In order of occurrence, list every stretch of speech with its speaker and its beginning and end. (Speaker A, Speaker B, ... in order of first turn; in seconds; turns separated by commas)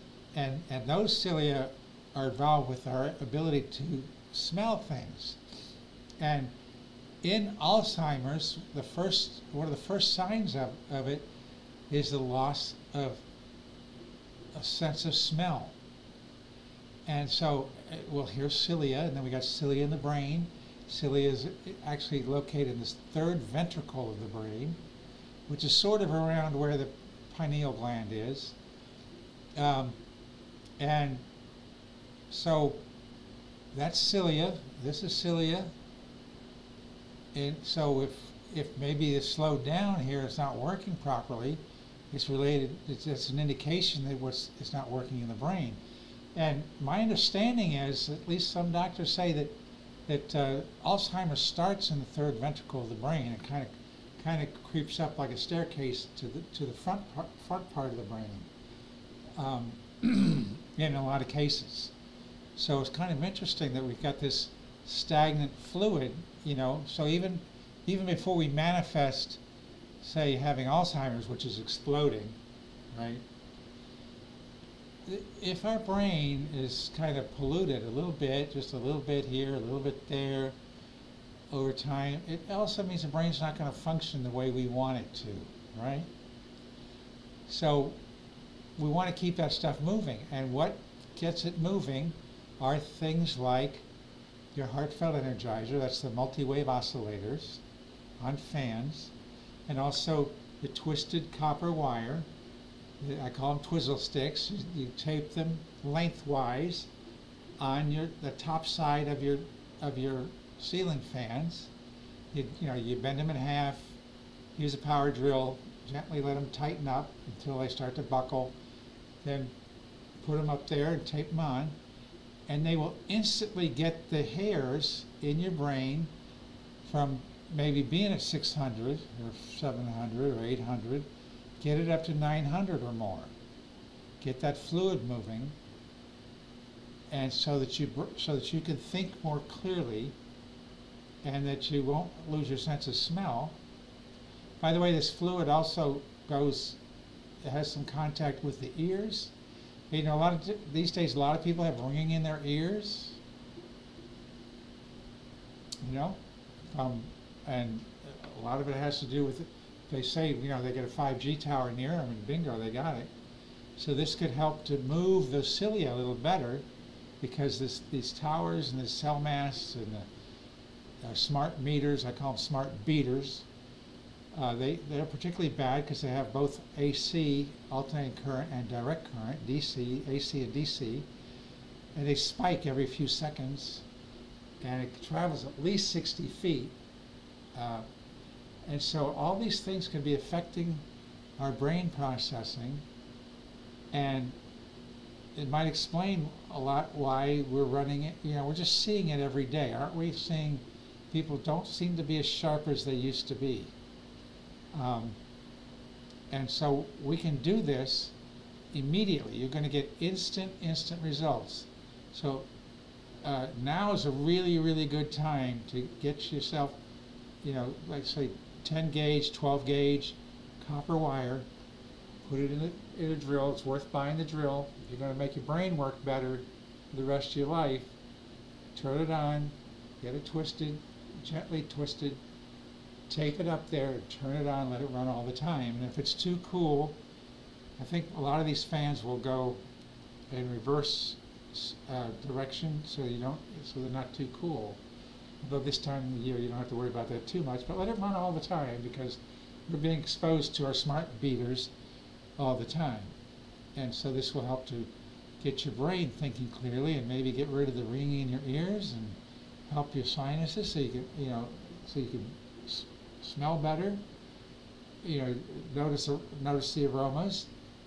Speaker A: 0.3-5.4, Speaker A: 6.2-6.5, Speaker A: 7.2-11.3, Speaker A: 11.9-13.2, Speaker A: 14.5-15.8, Speaker A: 17.1-24.8, Speaker A: 25.5-28.6, Speaker A: 29.6-30.0, Speaker A: 30.8-31.2, Speaker A: 32.3-32.8, Speaker A: 33.7-35.7, Speaker A: 37.3-45.8, Speaker A: 46.3-49.5, Speaker A: 50.1-58.5, Speaker A: 59.4-61.9, Speaker A: 62.5-69.4, Speaker A: 70.0-72.4, Speaker A: 72.9-73.2, Speaker A: 75.0-80.5, Speaker A: 81.5-86.1, Speaker A: 87.5-88.0, Speaker A: 88.8-93.9, Speaker A: 94.5-97.6, Speaker A: 98.2-99.1, Speaker A: 99.7-102.3, Speaker A: 103.0-106.9, Speaker A: 107.6-111.7, Speaker A: 112.3-114.0, Speaker A: 114.5-118.5, Speaker A: 119.2-119.5, Speaker A: 120.2-121.8, Speaker A: 122.5-126.1, Speaker A: 126.8-131.1, Speaker A: 131.6-133.3, Speaker A: 134.2-135.5, Speaker A: 137.1-140.1, Speaker A: 141.2-143.6, Speaker A: 144.6-146.8, Speaker A: 147.4-149.3, Speaker A: 149.9-153.2, Speaker A: 155.8-156.2, Speaker A: 156.7-163.1, Speaker A: 163.8-166.7, Speaker A: 167.2-170.1, Speaker A: 171.0-173.5, Speaker A: 174.3-181.1, Speaker A: 181.9-183.8, Speaker A: 184.6-186.8, Speaker A: 187.5-187.9, Speaker A: 188.7-190.8, Speaker A: 191.4-192.8, Speaker A: 193.9-194.4, Speaker A: 195.3-203.7, Speaker A: 204.7-205.2, Speaker A: 206.3-208.1, Speaker A: 208.7-212.5, Speaker A: 213.2-216.8, Speaker A: 217.4-221.5, Speaker A: 222.2-227.9, Speaker A: 228.7-232.2, Speaker A: 233.1-237.0, Speaker A: 237.8-239.6, Speaker A: 240.3-244.8, Speaker A: 245.4-251.7, Speaker A: 252.4-253.1, Speaker A: 253.7-264.0, Speaker A: 265.0-267.5